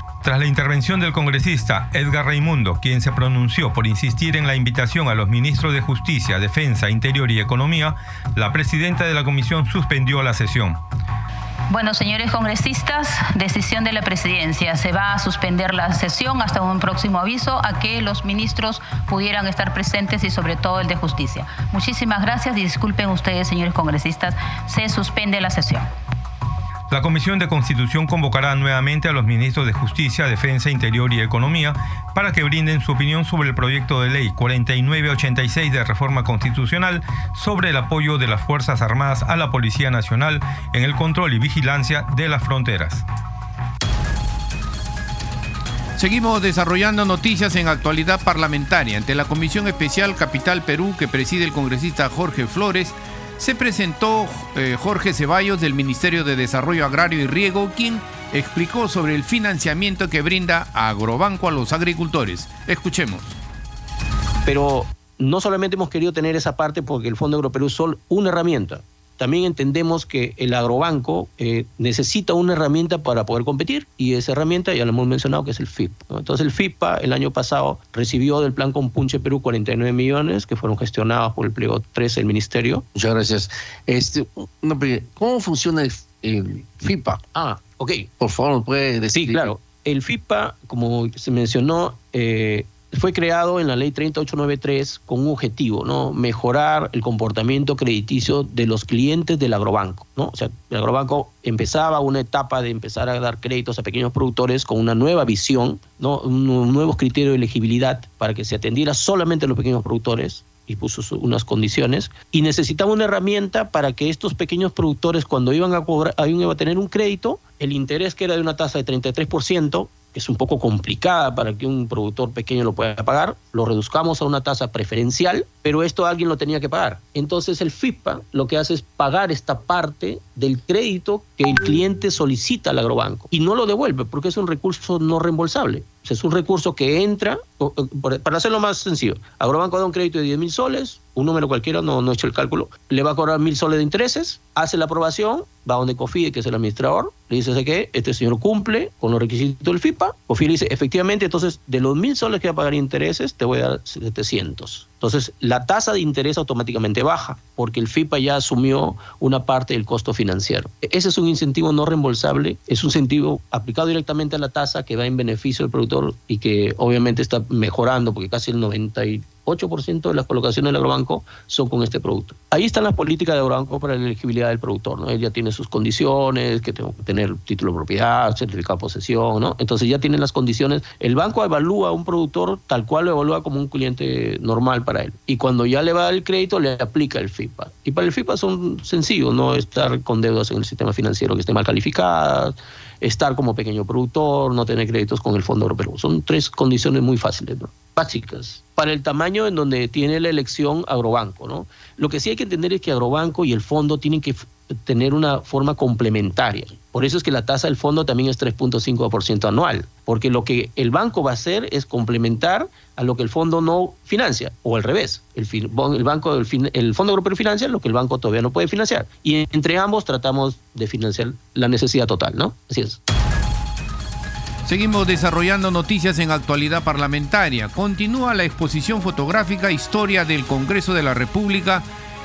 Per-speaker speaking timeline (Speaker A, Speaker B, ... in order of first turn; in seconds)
Speaker A: 0.2-10.8, 26.9-43.0
Speaker B: 11.7-25.9
Speaker C: 46.0-63.4, 224.7-231.9
Speaker D: 64.5-82.8, 87.3-88.1, 89.1-223.0
Speaker E: 83.0-87.2, 88.2-89.5